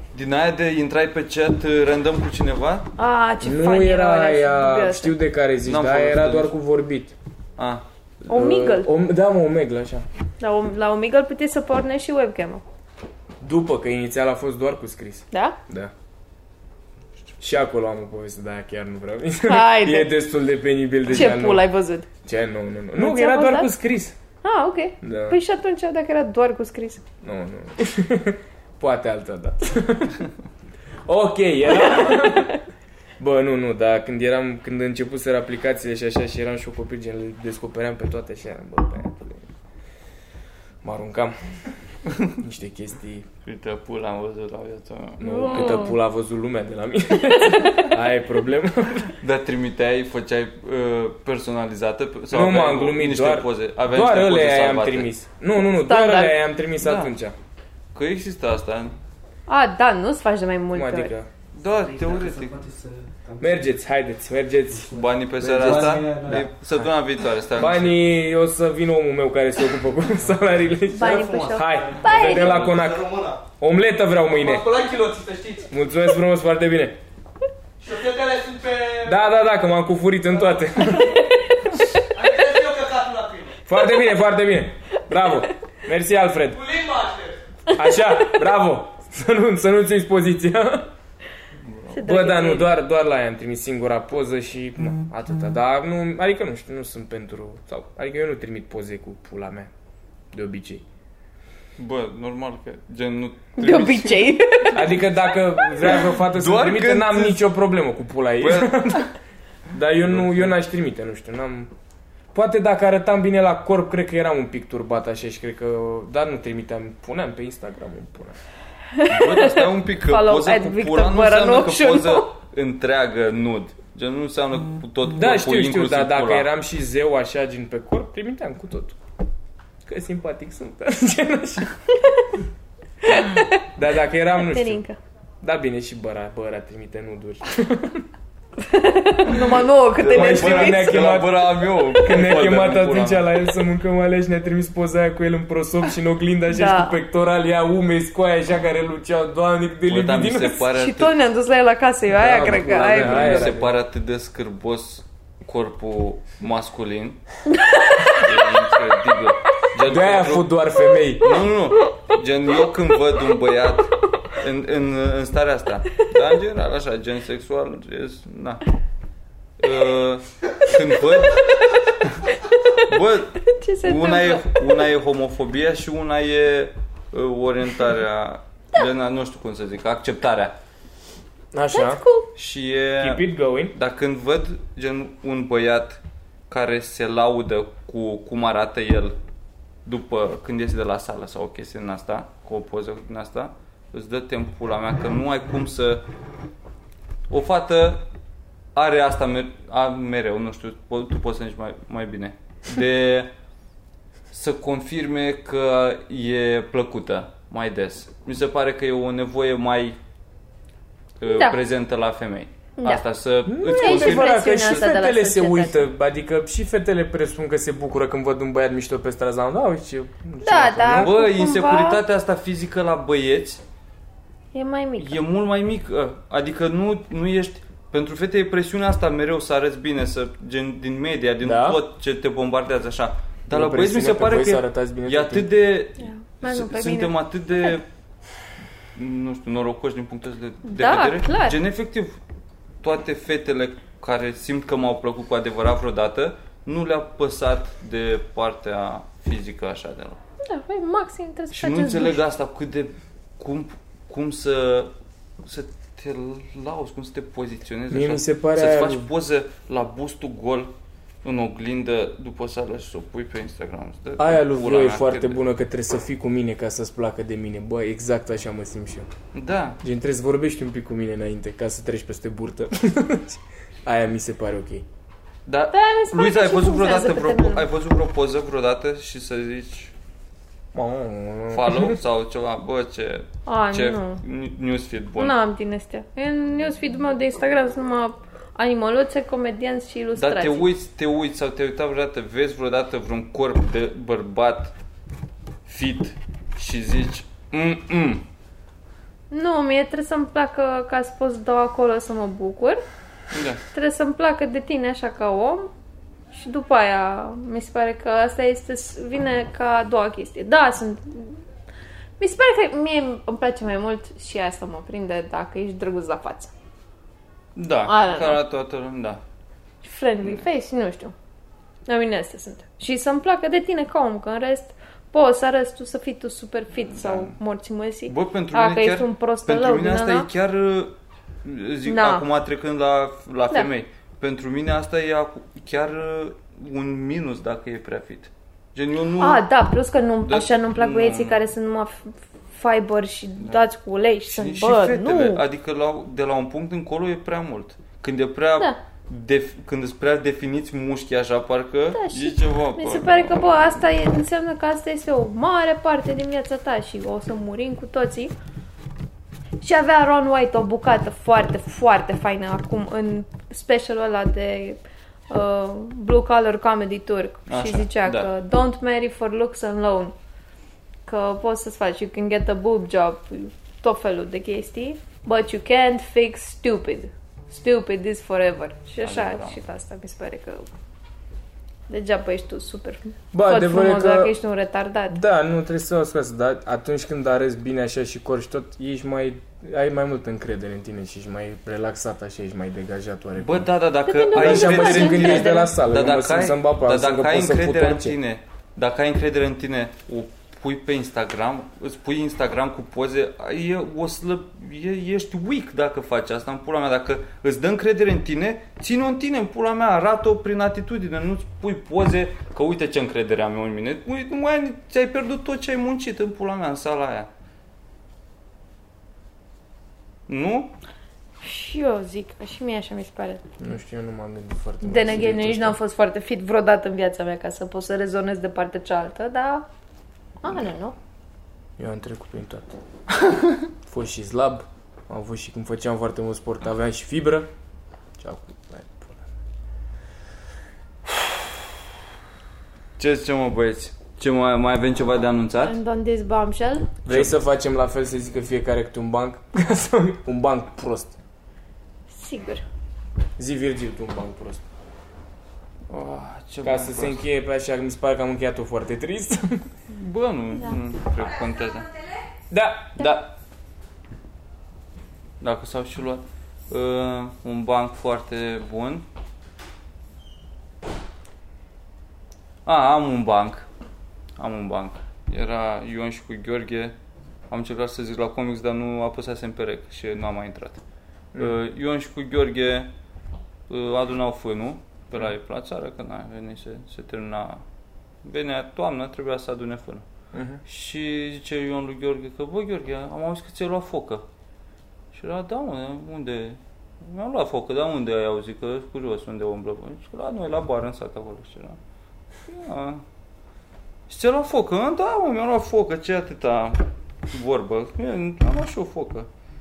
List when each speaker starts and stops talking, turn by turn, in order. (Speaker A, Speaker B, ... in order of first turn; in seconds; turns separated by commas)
Speaker A: 0.1-2.9, Speaker B: 3.0-5.1, Speaker C: 3.4-7.1, Speaker A: 5.7-6.5, Speaker A: 7.6-7.8, Speaker B: 8.3-8.9, Speaker C: 8.3-10.1, Speaker B: 10.4-12.6, Speaker C: 13.4-15.9, Speaker B: 15.3-15.6, Speaker C: 17.4-21.6, Speaker B: 19.5-20.1, Speaker B: 21.1-22.1, Speaker C: 22.2-24.1, Speaker B: 22.9-23.7, Speaker B: 24.4-27.0, Speaker C: 25.0-25.4, Speaker C: 27.2-30.2, Speaker C: 31.1-32.6, Speaker B: 31.8-32.6, Speaker C: 33.2-39.5, Speaker C: 40.8-41.5, Speaker C: 42.4-43.3, Speaker A: 43.4-45.8, Speaker C: 45.2-49.2, Speaker B: 45.2-46.0, Speaker A: 49.2-55.1, Speaker C: 52.3-57.3, Speaker B: 55.7-56.4, Speaker A: 56.8-57.1, Speaker A: 57.9-58.9, Speaker B: 59.5-61.1, Speaker C: 60.7-61.3, Speaker A: 61.5-62.6, Speaker D: 61.7-63.6, Speaker C: 63.4-66.4, Speaker D: 64.8-66.5, Speaker A: 64.9-67.9, Speaker C: 67.5-74.7, Speaker B: 70.9-72.6, Speaker D: 71.0-73.4, Speaker D: 74.4-75.7, Speaker C: 75.7-77.0, Speaker D: 77.8-79.1, Speaker C: 79.0-81.2, Speaker D: 82.1-83.6, Speaker C: 83.7-86.6, Speaker D: 86.5-87.4, Speaker C: 87.7-90.9, Speaker B: 87.9-88.3, Speaker A: 91.6-92.0, Speaker B: 91.9-92.7, Speaker C: 92.0-99.7, Speaker C: 100.3-100.8, Speaker A: 101.8-104.8, Speaker B: 103.6-104.9, Speaker C: 104.7-109.1, Speaker A: 106.0-107.4, Speaker A: 108.4-109.1, Speaker C: 109.7-111.7, Speaker A: 110.0-110.5, Speaker C: 112.3-118.4, Speaker B: 118.9-122.3, Speaker A: 119.0-126.5, Speaker C: 125.1-129.0, Speaker C: 129.8-131.7, Speaker B: 133.0-133.6, Speaker C: 133.7-134.8, Speaker B: 134.4-135.0, Speaker C: 135.4-138.1, Speaker B: 138.6-141.2, Speaker A: 140.0-143.3, Speaker C: 140.0-150.7, Speaker B: 146.5-147.0, Speaker A: 149.9-151.2, Speaker B: 150.7-153.5, Speaker C: 152.1-153.7, Speaker A: 152.7-157.2, Speaker B: 157.5-158.4, Speaker A: 158.1-160.6, Speaker C: 159.8-161.4, Speaker A: 161.2-168.6, Speaker A: 169.6-172.2, Speaker B: 171.3-171.7, Speaker B: 172.3-174.8, Speaker A: 172.8-180.5, Speaker C: 181.5-182.0, Speaker B: 181.7-182.3, Speaker A: 182.3-189.2, Speaker C: 183.0-183.7, Speaker A: 189.8-196.0, Speaker A: 197.3-198.0, Speaker A: 198.7-203.3, Speaker A: 204.3-210.0, Speaker A: 211.2-214.9, Speaker B: 211.2-211.6, Speaker C: 213.4-221.1, Speaker B: 213.7-215.8, Speaker B: 220.4-222.0, Speaker A: 220.9-223.6, Speaker B: 224.5-225.2, Speaker A: 225.0-237.8, Speaker C: 231.4-231.8, Speaker C: 233.5-235.5, Speaker B: 236.0-237.8, Speaker A: 238.9-242.2, Speaker B: 240.6-241.6, Speaker A: 242.8-250.2, Speaker B: 250.4-252.2, Speaker A: 251.5-254.9, Speaker A: 255.4-260.7, Speaker C: 257.9-259.1, Speaker A: 261.2-265.4, Speaker C: 264.2-269.1, Speaker A: 269.3-269.8, Speaker C: 269.8-274.9, Speaker A: 275.4-279.9, Speaker B: 275.7-277.7, Speaker C: 280.7-282.0, Speaker A: 281.5-285.4, Speaker B: 283.4-284.2, Speaker B: 285.2-290.7, Speaker A: 290.2-294.7, Speaker A: 295.6-298.2, Speaker B: 299.3-302.8, Speaker A: 303.3-303.6, Speaker B: 303.7-305.7, Speaker B: 306.3-311.4, Speaker B: 312.2-316.5, Speaker A: 317.6-319.2, Speaker B: 317.9-318.4, Speaker B: 319.8-321.1, Speaker B: 321.9-330.3, Speaker A: 326.9-327.4, Speaker A: 328.1-339.4, Speaker B: 331.8-332.2, Speaker B: 339.2-345.4, Speaker A: 340.2-341.4, Speaker A: 344.3-353.8, Speaker B: 351.9-358.3, Speaker B: 359.6-370.1, Speaker A: 367.5-368.3, Speaker B: 371.1-380.7, Speaker A: 379.0-379.6, Speaker B: 381.9-385.2, Speaker C: 383.3-384.3, Speaker C: 385.1-393.7, Speaker A: 393.4-417.3, Speaker B: 394.1-395.7, Speaker C: 394.3-398.2, Speaker A: 420.3-420.7, Speaker B: 421.4-423.4, Speaker C: 423.6-425.8, Speaker B: 424.8-429.7, Speaker B: 430.4-430.9, Speaker C: 431.8-432.6, Speaker C: 433.8-437.5, Speaker C: 438.2-439.2, Speaker A: 443.0-445.8, Speaker B: 445.6-446.9, Speaker A: 447.1-447.4, Speaker C: 447.1-451.1, Speaker B: 452.1-452.6, Speaker C: 453.4-454.6, Speaker A: 455.9-457.2, Speaker C: 456.6-459.7, Speaker A: 459.9-461.9, Speaker C: 462.5-463.1, Speaker A: 463.0-463.3, Speaker A: 465.4-469.0, Speaker A: 472.6-473.6, Speaker A: 474.4-476.9, Speaker A: 477.5-480.8, Speaker A: 481.4-482.9, Speaker A: 483.7-487.6, Speaker A: 488.2-490.0, Speaker C: 490.3-490.6, Speaker A: 490.6-494.2, Speaker A: 495.1-501.8, Speaker A: 502.5-503.0, Speaker A: 504.1-509.3